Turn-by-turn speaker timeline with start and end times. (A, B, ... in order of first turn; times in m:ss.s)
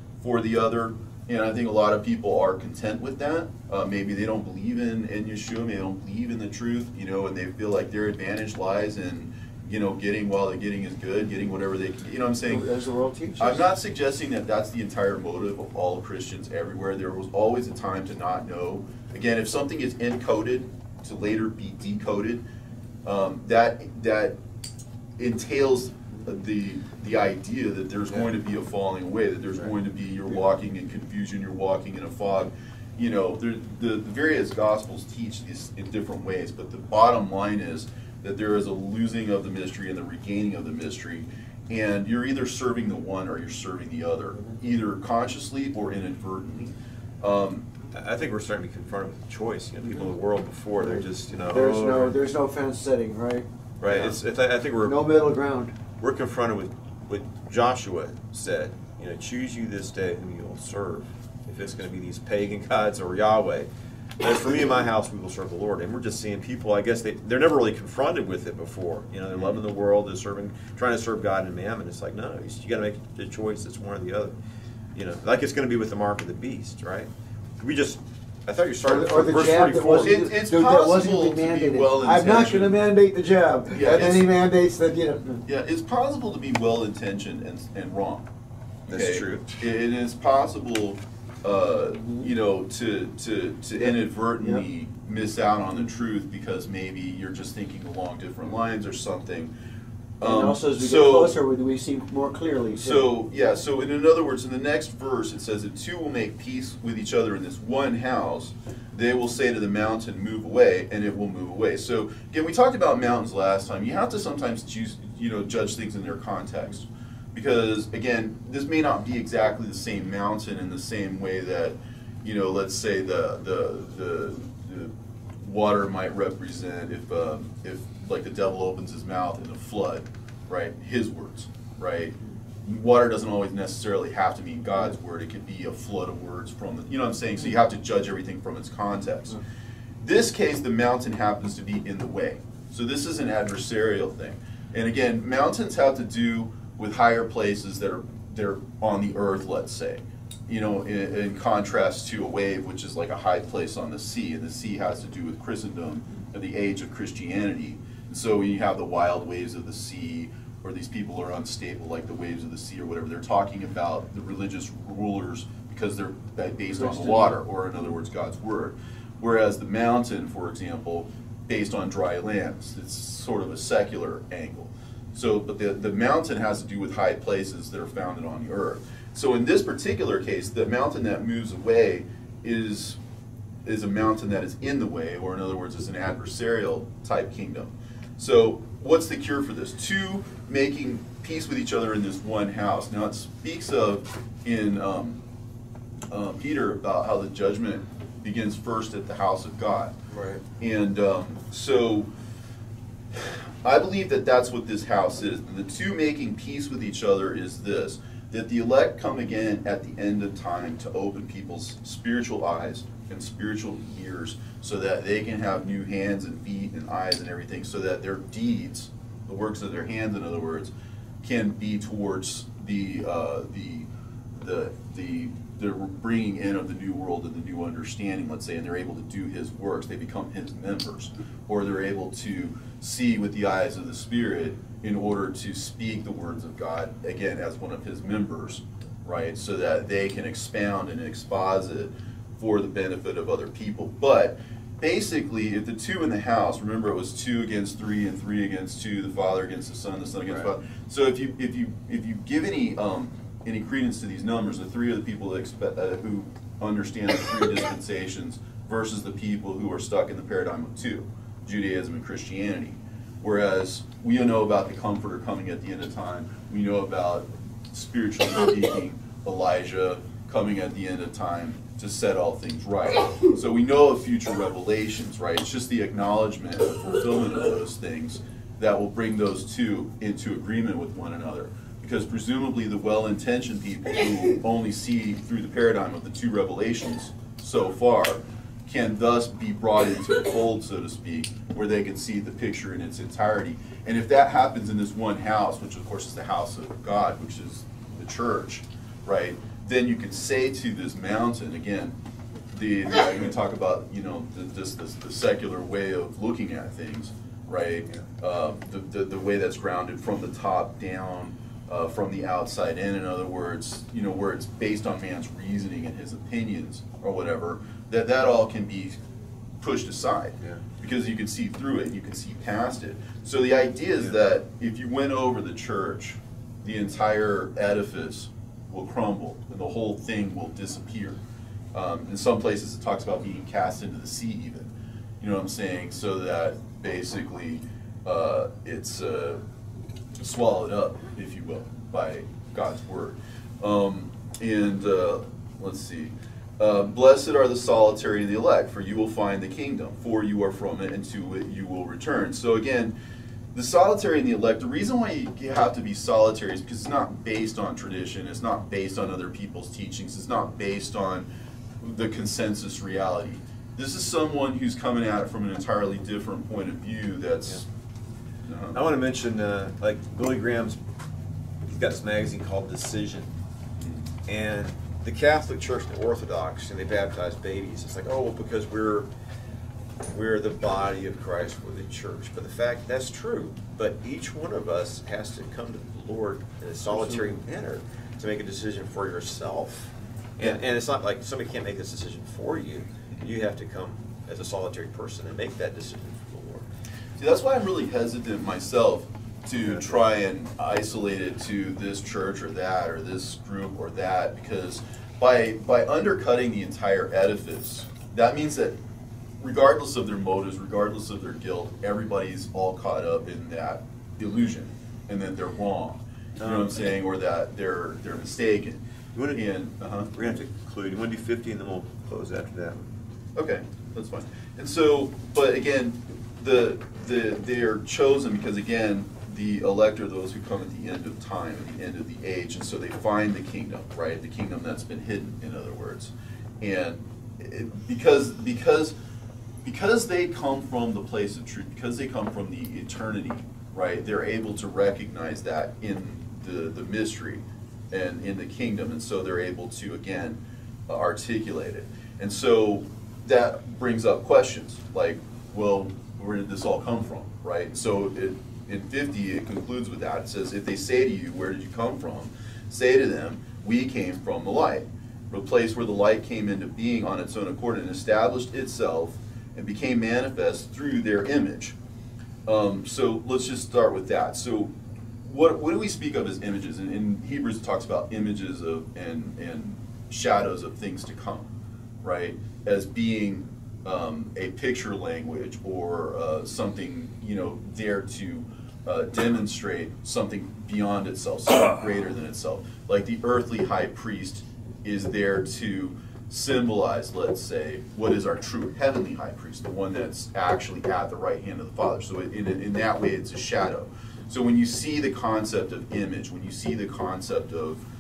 0:00.2-0:12.7 A
0:12.5-0:13.6 B
0:13.4-0:22.4 A
0:23.0-0:24.4 A
0:25.2-0:47.7 A
0:47.9-0:52.2 C
0:50.8-0:53.5 B
0:53.8-0:54.2 A
0:53.8-0:55.0 C
0:54.8-0:55.8 B
0:56.0-1:03.7 C
1:04.2-1:14.4 C
1:09.3-1:09.6 A
1:15.0-1:20.2 C
1:18.8-1:25.4 B
1:20.0-1:22.8 A
1:23.7-1:24.3 A
1:25.5-1:28.3 A
1:28.9-1:29.6 C
1:28.9-1:39.5 A
1:40.2-1:41.4 A
1:40.2-1:43.1 B
1:42.8-2:19.4 A
2:20.0-3:03.0 A
2:46.9-2:47.3 B
3:03.6-3:15.2 A
3:16.1-3:20.0 A
3:20.1-3:20.4 C
3:20.6-3:22.1 A
3:23.1-5:02.0 A
5:02.5-5:19.0 A
5:19.6-5:31.2 A
5:31.7-5:39.4 A
5:40.2-5:52.9 A
5:53.5-6:01.3 A
6:01.8-6:07.6 A
6:08.5-6:08.8 A
6:08.7-6:10.8 C
6:11.6-6:13.3 C
6:14.3-6:19.1 C
6:20.0-6:36.7 C
6:37.2-6:48.8 A
6:49.4-7:00.1 A
6:56.4-6:56.8 C
6:59.2-6:59.5 C
7:00.1-7:02.9 C
7:03.4-7:19.0 A
7:19.6-7:51.8 A
7:52.5-8:01.5 A
8:02.0-8:27.8 A